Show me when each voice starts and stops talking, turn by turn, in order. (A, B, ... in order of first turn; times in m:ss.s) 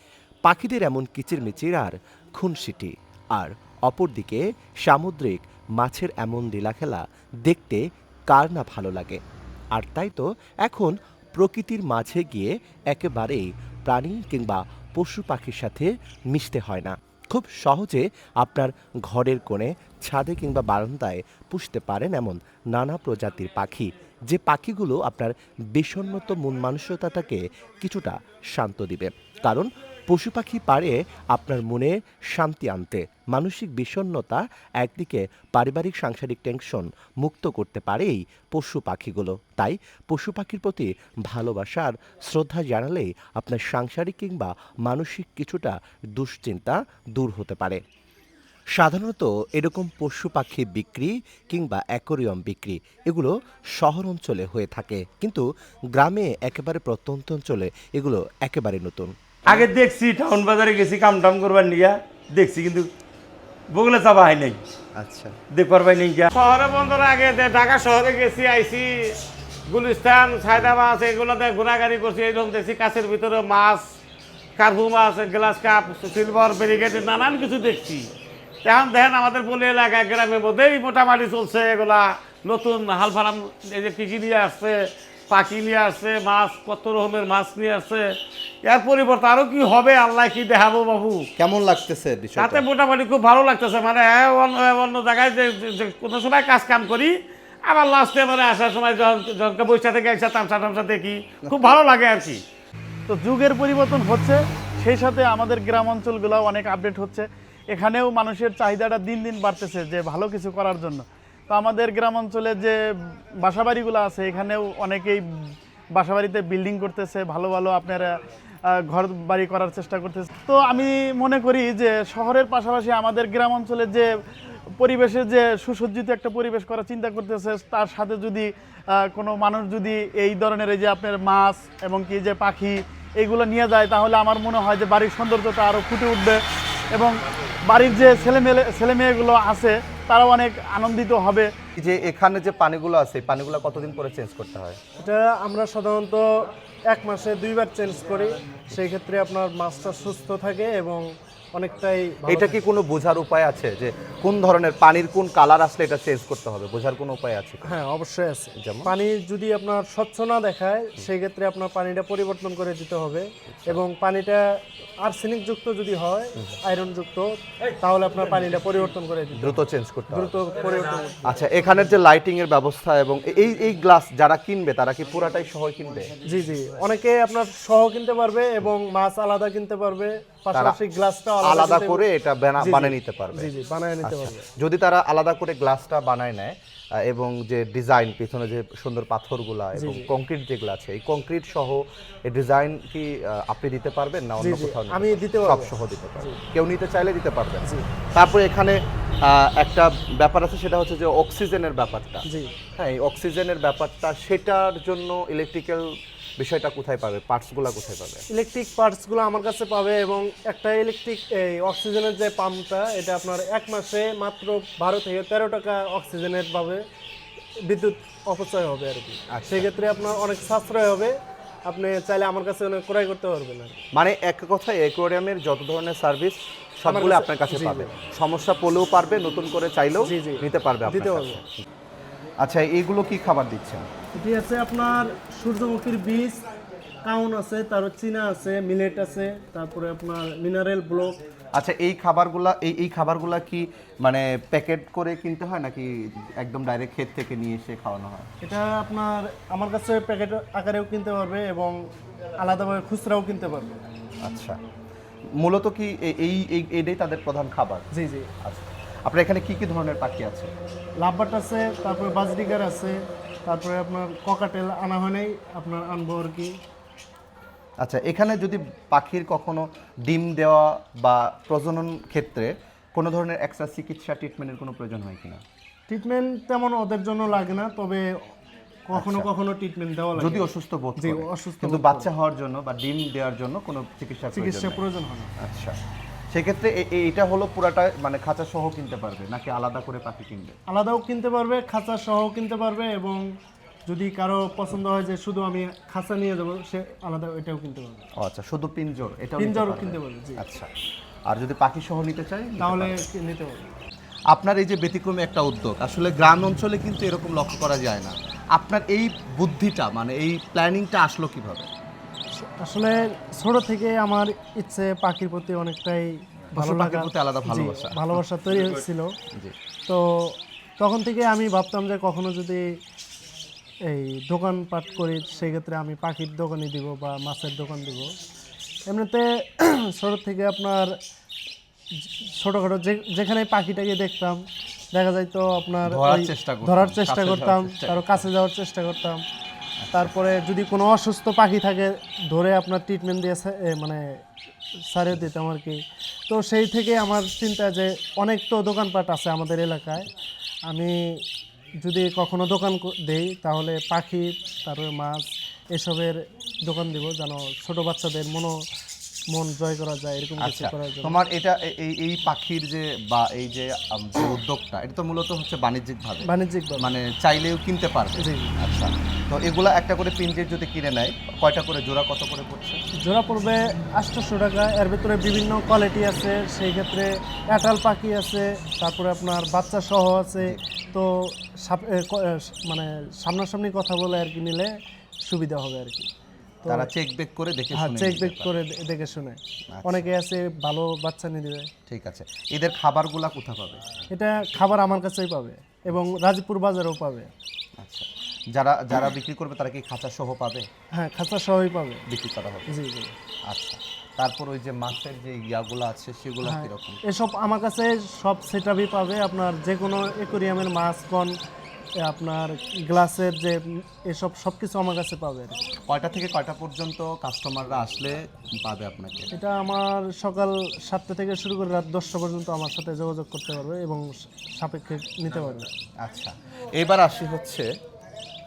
0:00.4-0:09.2 A
0:09.7-0:47.8 A
0:48.7-0:55.4 A
0:55.9-0:59.1 A
0:59.4-1:02.9 B
1:03.7-1:04.6 B
1:05.0-1:05.3 C
1:05.5-1:06.3 B
1:06.3-1:09.1 D
1:09.7-1:13.8 D
1:14.6-1:18.1 D
1:18.6-1:31.3 D
1:31.4-1:32.6 C
1:32.4-1:42.4 D
1:41.4-1:41.7 C
1:43.1-1:52.8 E
1:53.4-1:55.2 E
1:55.9-1:58.1 E
1:58.7-2:04.1 E
2:04.8-2:16.4 E
2:17.7-2:21.5 E
2:21.8-2:24.8 C
2:25.0-2:26.2 F
2:26.9-2:32.6 F
2:32.3-2:37.8 C
2:37.6-2:44.4 F
2:38.6-2:38.9 C
2:43.5-2:43.8 C
2:45.0-2:52.0 F
2:49.4-2:50.4 C
2:51.2-2:56.1 C
2:56.2-3:02.0 F
3:01.4-3:03.5 C
3:02.6-3:04.4 F
3:04.0-3:22.2 C
3:09.7-3:10.1 F
3:14.4-3:16.4 F
3:22.2-3:22.5 F
3:22.8-3:25.8 C
3:26.4-3:28.2 C
3:28.3-3:36.8 F
3:37.6-3:41.1 F
3:39.3-3:39.7 C
3:41.7-3:43.8 F
3:43.9-3:51.6 C
3:46.8-3:47.9 F
3:50.0-3:51.4 F
3:52.4-3:53.9 C
3:54.1-3:56.4 F
3:57.0-4:01.2 F
4:01.5-4:08.3 C
4:08.4-4:11.8 F
4:12.4-4:13.8 F
4:14.2-4:14.6 C
4:15.4-4:17.8 C
4:17.9-4:18.3 F
4:18.4-4:20.5 C
4:21.0-4:26.6 F
4:27.8-4:35.4 C
4:35.9-4:38.1 F
4:38.9-4:42.1 F
4:38.9-4:39.3 C
4:40.2-4:44.8 C
4:44.3-4:45.3 F
4:45.4-4:45.8 C
4:46.3-4:50.6 C
4:50.7-4:53.2 F
4:53.8-4:58.0 F
4:58.2-5:00.7 C
4:59.4-5:00.4 F
5:01.3-5:03.0 C
5:02.6-5:03.7 F
5:04.3-5:11.7 C
5:12.4-5:19.1 F
5:16.5-5:18.2 C
5:19.8-5:22.6 F
5:23.9-5:28.1 F
5:28.9-5:30.9 F
5:32.0-5:39.2 F
5:35.8-5:38.2 C
5:39.8-5:40.1 C
5:39.9-5:44.0 F
5:44.9-5:50.1 F
5:50.7-5:51.0 F
5:51.8-5:58.5 F
5:59.3-6:01.2 F
6:00.4-6:06.2 C
6:06.2-6:06.8 F
6:06.8-6:12.8 C
6:08.2-6:08.5 F
6:13.0-6:24.7 F
6:25.2-6:26.1 F
6:26.6-6:26.9 F
6:26.7-6:28.5 C
6:27.7-6:31.7 F
6:29.7-6:30.1 C
6:31.9-6:33.8 C
6:34.1-6:37.3 F
6:37.8-6:40.7 C
6:40.9-6:42.0 F
6:42.1-6:42.7 C
6:42.7-6:43.1 F
6:43.5-6:47.0 C
6:46.4-6:51.3 F
6:52.0-6:55.6 F
6:55.9-6:59.3 C
6:59.3-7:05.7 F
7:06.0-7:07.7 C